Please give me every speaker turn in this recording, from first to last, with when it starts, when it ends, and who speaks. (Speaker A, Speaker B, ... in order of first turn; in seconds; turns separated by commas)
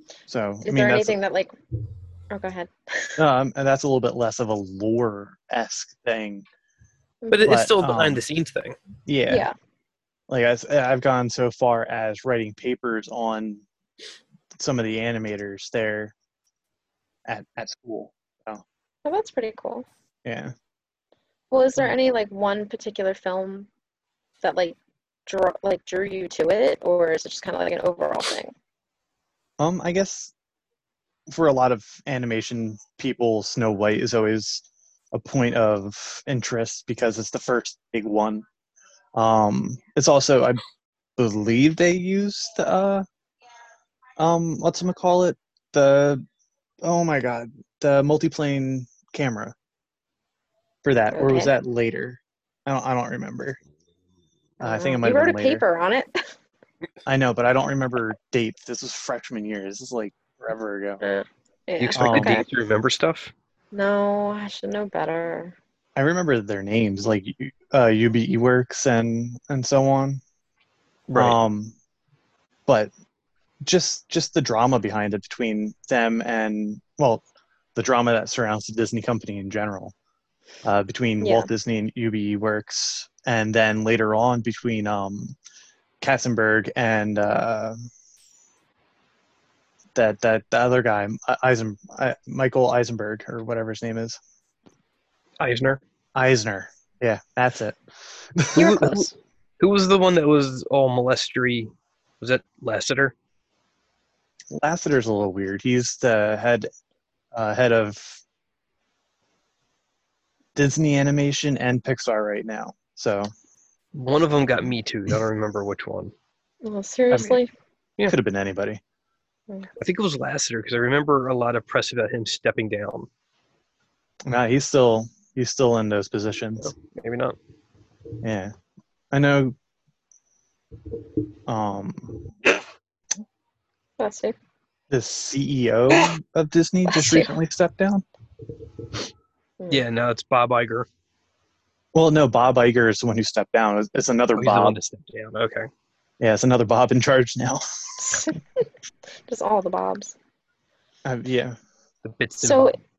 Speaker A: 0.3-1.2, Speaker B: 0.7-1.5, Speaker B: 2.3-3.2, Speaker A: 3.2-6.5, Speaker B: 7.2-7.6, Speaker C: 7.3-8.8, Speaker A: 7.5-8.2, Speaker A: 9.1-9.5, Speaker B: 9.3-9.5, Speaker A: 10.3-13.7, Speaker A: 14.5-16.1, Speaker A: 17.3-18.6, Speaker B: 19.1-19.9, Speaker A: 20.2-20.5, Speaker B: 21.5-23.7, Speaker B: 24.4-28.5, Speaker A: 29.6-30.3, Speaker A: 31.3-38.5, Speaker A: 39.2-40.6, Speaker A: 41.2-43.1, Speaker A: 44.2-46.2, Speaker A: 46.8-49.5, Speaker A: 50.8-53.6, Speaker B: 51.1-51.5, Speaker A: 54.6-55.6, Speaker B: 54.6-56.2, Speaker A: 57.1-61.0, Speaker B: 61.0-62.4, Speaker C: 61.8-63.3, Speaker A: 62.0-62.4, Speaker B: 63.7-65.6, Speaker A: 66.0-70.2, Speaker C: 71.1-71.4, Speaker A: 71.2-71.8, Speaker A: 73.6-77.2, Speaker A: 77.8-79.9, Speaker A: 80.6-85.4, Speaker B: 81.2-81.5, Speaker A: 86.0-87.8, Speaker A: 90.0-94.2, Speaker C: 95.4-95.8, Speaker A: 96.2-97.8, Speaker A: 98.3-99.0, Speaker B: 98.6-99.0, Speaker C: 98.6-103.1, Speaker A: 104.5-106.7, Speaker A: 107.3-108.2, Speaker A: 110.6-113.3, Speaker C: 114.0-116.1, Speaker B: 116.6-117.5, Speaker A: 117.1-117.4, Speaker A: 118.1-118.8, Speaker C: 119.8-123.1, Speaker A: 124.2-126.7, Speaker C: 126.7-127.4, Speaker A: 128.2-128.5, Speaker A: 129.1-129.6, Speaker A: 131.5-132.3, Speaker B: 134.0-134.4, Speaker A: 134.9-138.0, Speaker B: 136.9-137.3, Speaker B: 139.6-139.9, Speaker C: 139.7-140.9, Speaker A: 141.9-144.8, Speaker C: 144.4-145.7, Speaker A: 146.2-147.6, Speaker B: 148.0-148.6, Speaker B: 149.3-150.2, Speaker A: 151.1-151.6, Speaker C: 152.0-152.7, Speaker B: 152.4-152.8